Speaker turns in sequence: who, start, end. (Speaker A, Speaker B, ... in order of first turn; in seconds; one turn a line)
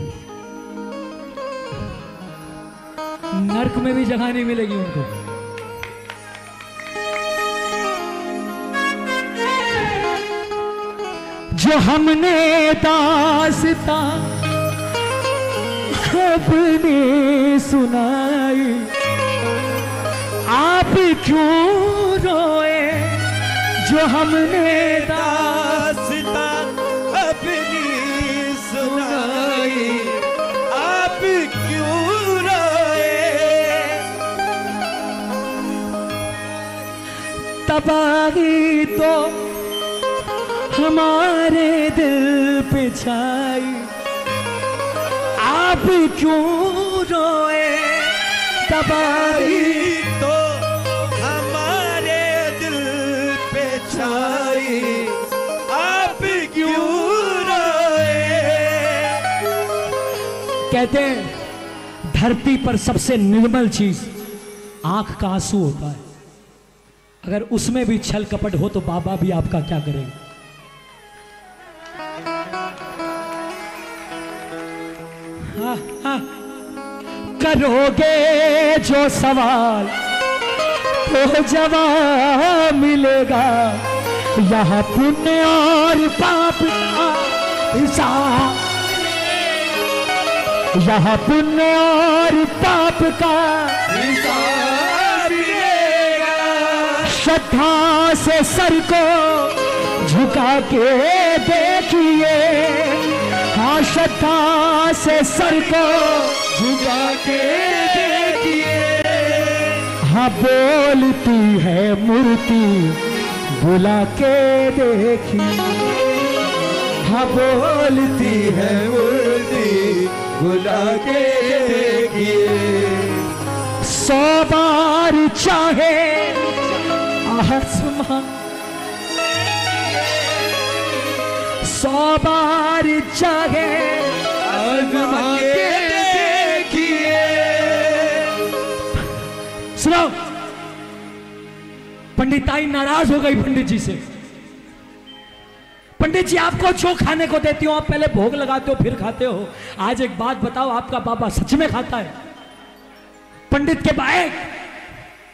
Speaker A: 3.3-5.1
Speaker A: 11.5-14.4
Speaker A: 15.9-18.9
Speaker A: 20.5-25.9
Speaker B: 25.1-34.0
Speaker A: 37.6-39.5
Speaker A: 40.7-43.9
Speaker A: 45.4-50.1
Speaker B: 49.4-59.2
Speaker A: 60.7-61.4
Speaker A: 62.1-64.1
Speaker A: 64.8-66.0
Speaker A: 67.2-70.1
Speaker A: 75.4-76.3
Speaker A: 77.3-79.9
Speaker A: 81.0-88.7
Speaker A: 90.7-93.9
Speaker B: 93.9-97.0
Speaker A: 97.0-106.5
Speaker B: 106.4-109.9
Speaker A: 110.0-115.7
Speaker A: 117.0-118.9
Speaker B: 118.5-123.3
Speaker A: 123.8-126.6
Speaker A: 127.2-128.3
Speaker A: 131.5-134.4
Speaker B: 134.4-138.4
Speaker A: 135.3-136.1
Speaker A: 139.7-140.2
Speaker A: 142.2-144.0
Speaker A: 146.0-152.1
Speaker A: 153.5-154.4